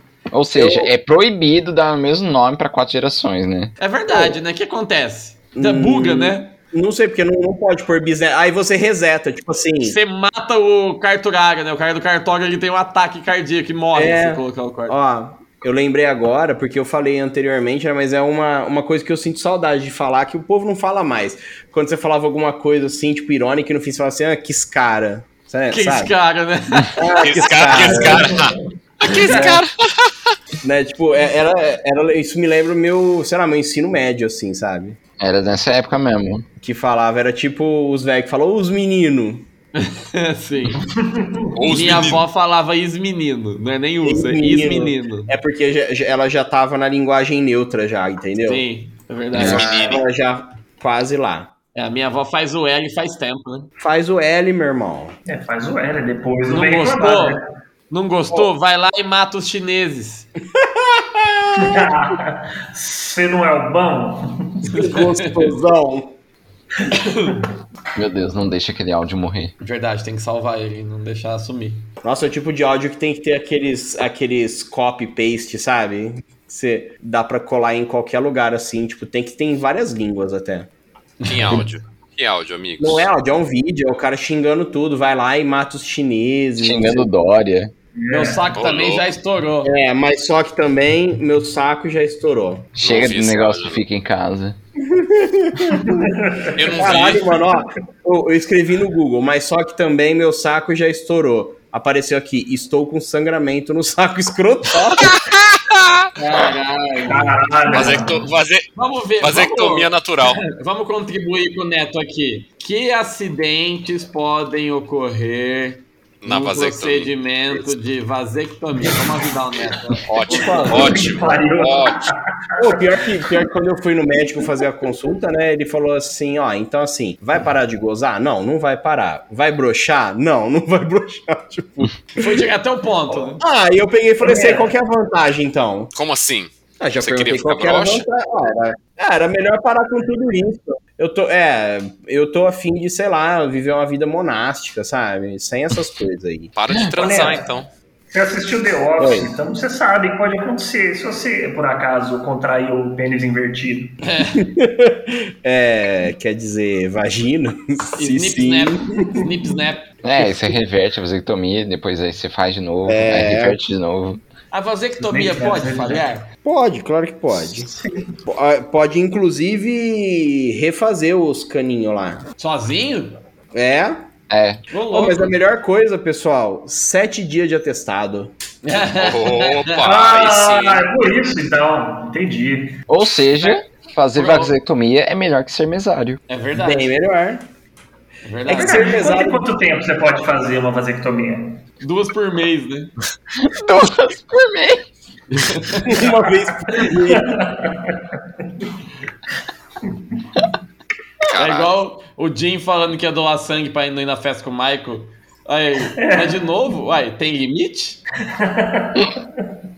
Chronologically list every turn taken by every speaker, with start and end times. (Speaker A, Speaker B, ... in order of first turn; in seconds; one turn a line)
Speaker A: 0.3-3.8
Speaker B: 0.6-0.9
Speaker C: 3.8-6.5
Speaker B: 4.1-4.4
Speaker B: 5.5-10.0
Speaker C: 9.8-14.9
Speaker B: 13.9-26.1
Speaker C: 25.7-27.1
Speaker B: 26.9-28.4
Speaker D: 27.2-30.3
Speaker E: 28.1-28.5
Speaker B: 29.2-29.6
Speaker B: 30.6-35.0
Speaker A: 35.2-36.5
Speaker B: 36.6-39.5
Speaker C: 39.8-40.9
Speaker E: 41.0-41.5
Speaker D: 41.5-42.2
Speaker C: 41.7-45.3
Speaker B: 44.0-48.6
Speaker C: 48.5-50.0
Speaker B: 49.3-51.5
Speaker D: 49.4-50.0
Speaker A: 49.4-49.6
Speaker C: 51.8-53.7
Speaker B: 53.8-55.2
Speaker E: 55.3-57.4
Speaker C: 56.5-57.4
Speaker C: 57.9-60.3
Speaker B: 60.6-61.9
Speaker E: 61.6-64.7
Speaker C: 64.7-65.5
Speaker B: 64.7-66.2
Speaker E: 66.8-67.5
Speaker C: 66.9-67.4
Speaker A: 68.0-69.5
Speaker C: 69.6-71.9
Speaker B: 72.0-80.7
Speaker C: 81.2-81.6
Speaker D: 81.2-83.1
Speaker B: 82.8-87.1
Speaker A: 86.6-87.7
Speaker E: 88.0-88.4
Speaker C: 88.1-89.7
Speaker D: 88.5-89.1
Speaker B: 89.6-92.7
Speaker A: 92.8-94.6
Speaker D: 92.8-93.8
Speaker B: 94.8-96.1
Speaker E: 95.7-96.6
Speaker D: 96.6-97.4
Speaker B: 96.7-105.2
Speaker D: 105.0-106.1
Speaker C: 106.2-108.0
Speaker E: 107.1-108.3
Speaker D: 107.7-108.7
Speaker C: 108.8-120.7
Speaker D: 109.2-110.4
Speaker D: 116.2-117.7
Speaker D: 120.1-122.1
Speaker B: 120.3-121.1
Speaker E: 120.3-122.9
Speaker B: 122.6-132.4
Speaker C: 132.2-133.4
Speaker B: 133.4-135.9
Speaker E: 134.2-134.7
Speaker D: 135.9-138.1
Speaker B: 136.8-146.5
Speaker D: 146.6-147.7
Speaker E: 147.0-147.5
Speaker E: 148.1-154.0
Speaker B: 149.0-149.3
Speaker C: 154.0-154.4
Speaker B: 154.3-159.3
Speaker C: 158.0-159.9
Speaker A: 160.0-164.2
Speaker B: 162.9-163.6
Speaker C: 164.5-166.3
Speaker E: 165.0-166.1
Speaker B: 166.4-167.7
Speaker E: 167.8-168.1
Speaker B: 168.2-172.2
Speaker C: 172.4-173.2
Speaker B: 173.5-174.0
Speaker A: 174.3-174.6
Speaker C: 174.7-175.3
Speaker B: 174.9-178.3
Speaker C: 178.6-179.8
Speaker D: 178.9-180.8
Speaker E: 179.8-182.8
Speaker A: 182.9-186.2
Speaker C: 184.2-184.5
Speaker C: 186.3-186.9
Speaker B: 186.5-187.5
Speaker C: 188.2-189.0
Speaker B: 188.5-189.5
Speaker E: 188.5-191.6
Speaker C: 191.8-192.9
Speaker A: 193.4-194.9
Speaker C: 195.3-195.9
Speaker B: 195.8-197.4
Speaker E: 196.8-198.2
Speaker D: 201.3-201.8
Speaker C: 201.4-208.0
Speaker E: 205.9-206.4
Speaker E: 208.3-209.4